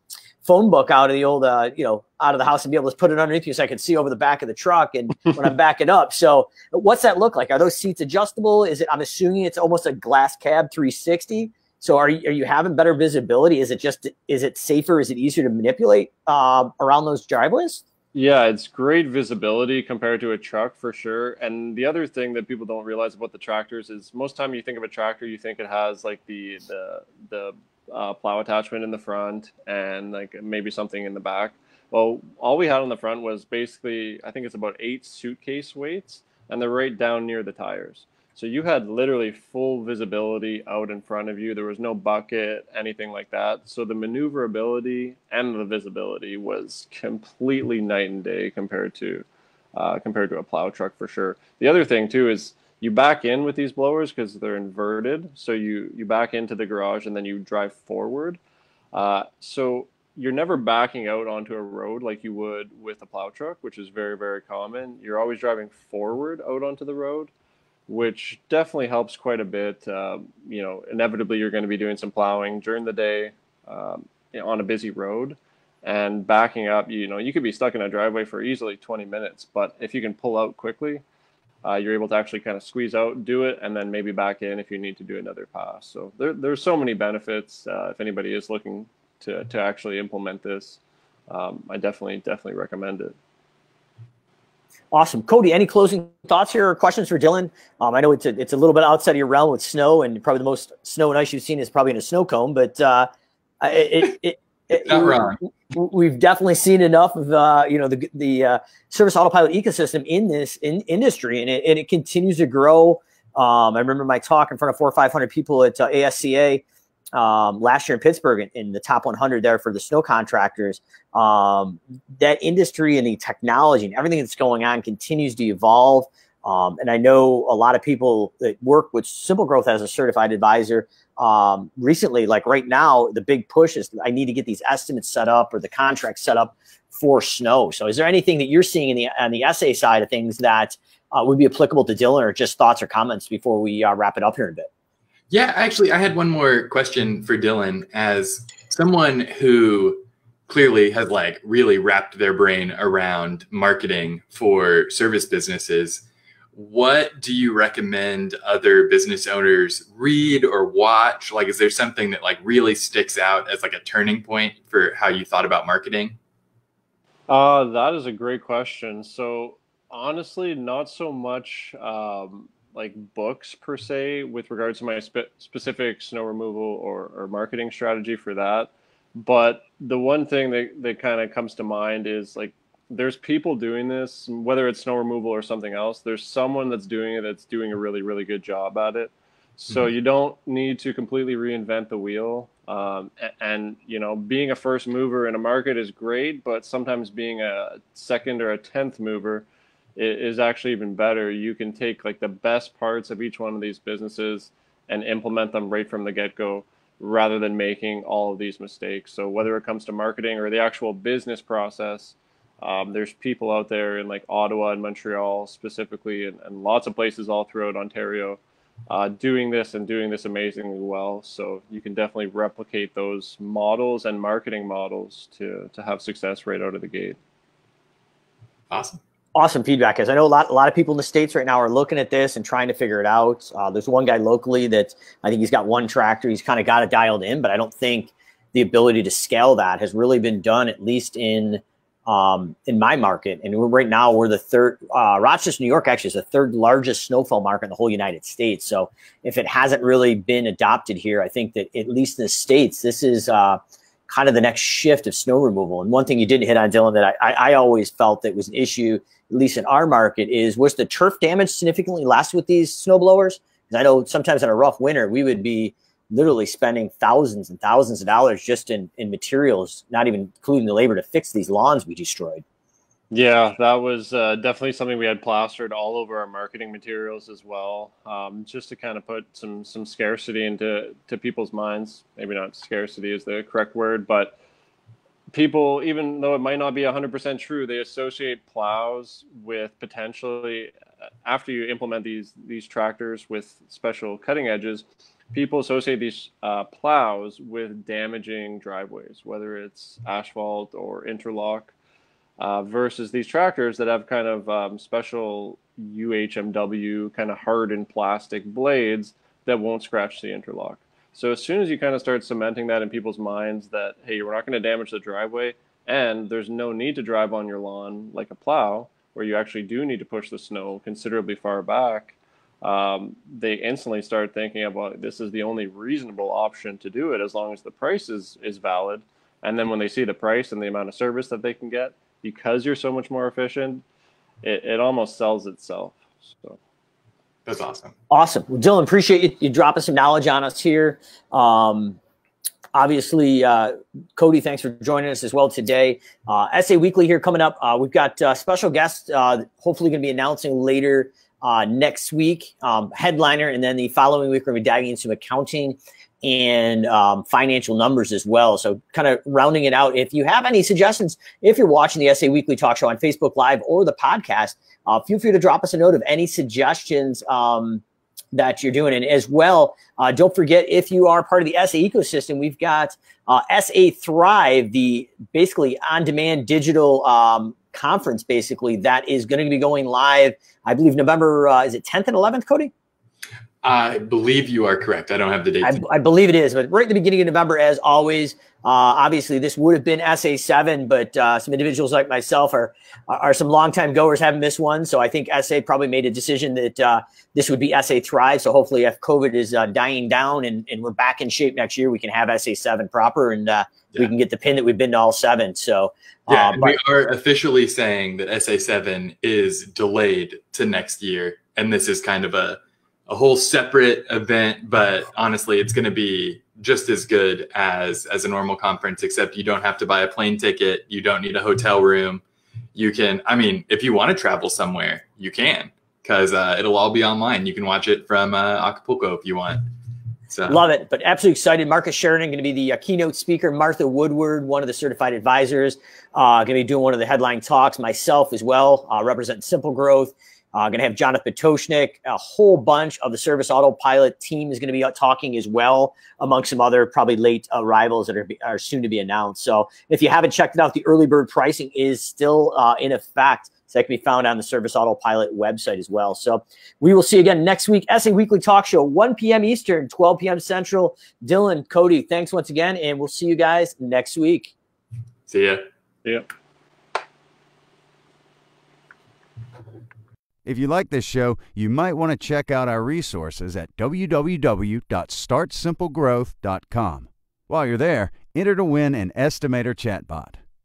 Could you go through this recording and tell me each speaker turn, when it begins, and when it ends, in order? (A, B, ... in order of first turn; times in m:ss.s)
0:00.4-0:17.8 A
0:18.1-0:58.4 B
0:58.9-1:07.3 B
1:07.9-1:21.0 B
1:21.6-1:33.1 B
1:34.9-1:43.1 A
1:43.6-1:56.6 A
1:44.8-1:45.4 C
1:57.1-2:24.7 A
2:25.3-2:46.2 C
2:47.3-3:47.2 B
3:48.7-3:49.0 C
3:49.4-4:32.4 A
4:33.1-4:44.4 B
4:45.3-4:50.7 B
4:51.2-5:01.7 B
5:02.4-5:33.8 B
5:34.4-5:36.6 B
5:37.5-5:37.9 C
5:38.1-5:42.0 A
5:42.7-6:22.7 A
6:23.6-6:25.8 C
6:25.6-6:46.8 A
6:46.3-7:02.2 C
7:02.8-7:09.6 C
7:10.3-7:10.6 C
7:10.5-7:44.5 A
7:45.3-7:45.6 C
7:50.4-8:00.4 D